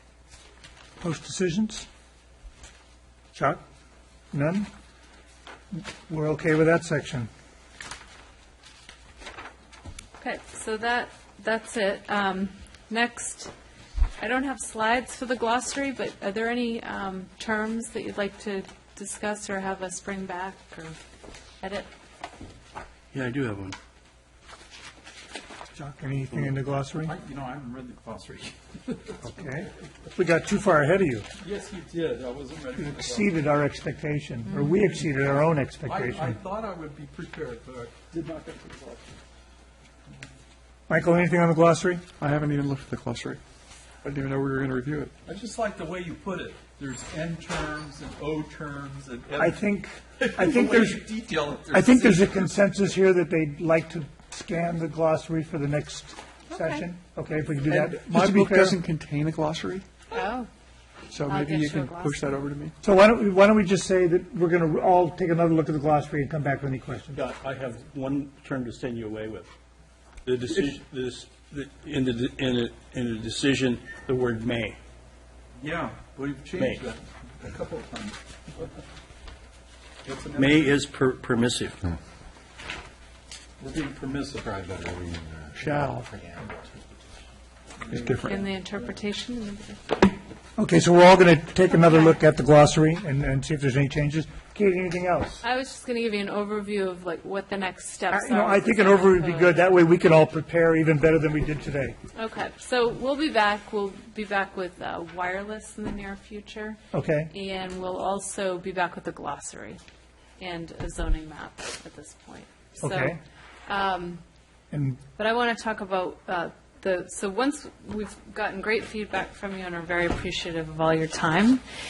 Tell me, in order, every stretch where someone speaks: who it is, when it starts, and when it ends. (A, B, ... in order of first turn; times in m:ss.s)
0:01.0-0:01.9 A
0:03.3-0:03.6 A
0:04.3-0:04.7 A
0:05.7-0:07.3 A
0:10.2-0:13.5 B
0:14.2-0:21.0 B
0:21.6-0:21.9 B
0:23.1-0:23.8 C
0:25.7-0:27.1 A
0:27.0-0:29.2 D
0:29.2-0:31.3 A
0:31.4-0:33.4 D
0:32.8-0:36.4 A
0:35.9-0:39.1 D
0:40.9-0:42.0 A
0:42.2-0:43.4 E
0:44.0-0:45.1 E
0:45.2-0:49.6 D
0:49.4-0:51.0 A
0:50.2-0:52.4 D
0:51.7-0:58.8 A
0:56.5-0:56.8 B
0:57.7-0:59.8 E
1:00.1-1:00.5 B
1:01.1-1:02.8 E
1:01.2-1:02.2 B
1:02.8-1:07.3 A
1:07.2-1:09.5 C
1:10.2-1:14.8 C
1:15.6-1:18.7 D
1:16.5-1:16.8 C
1:20.0-1:20.9 D
1:20.4-1:21.9 C
1:23.6-1:25.6 D
1:25.6-1:26.1 E
1:27.8-1:28.4 D
1:27.9-1:28.4 E
1:28.2-1:30.1 B
1:30.6-1:35.4 A
1:35.4-1:39.6 B
1:38.1-1:42.0 A
1:42.1-1:46.8 B
1:46.9-1:47.3 A
1:47.3-1:49.8 B
1:50.4-1:54.2 B
1:52.8-1:53.2 A
1:54.7-1:55.0 A
1:55.2-2:01.6 B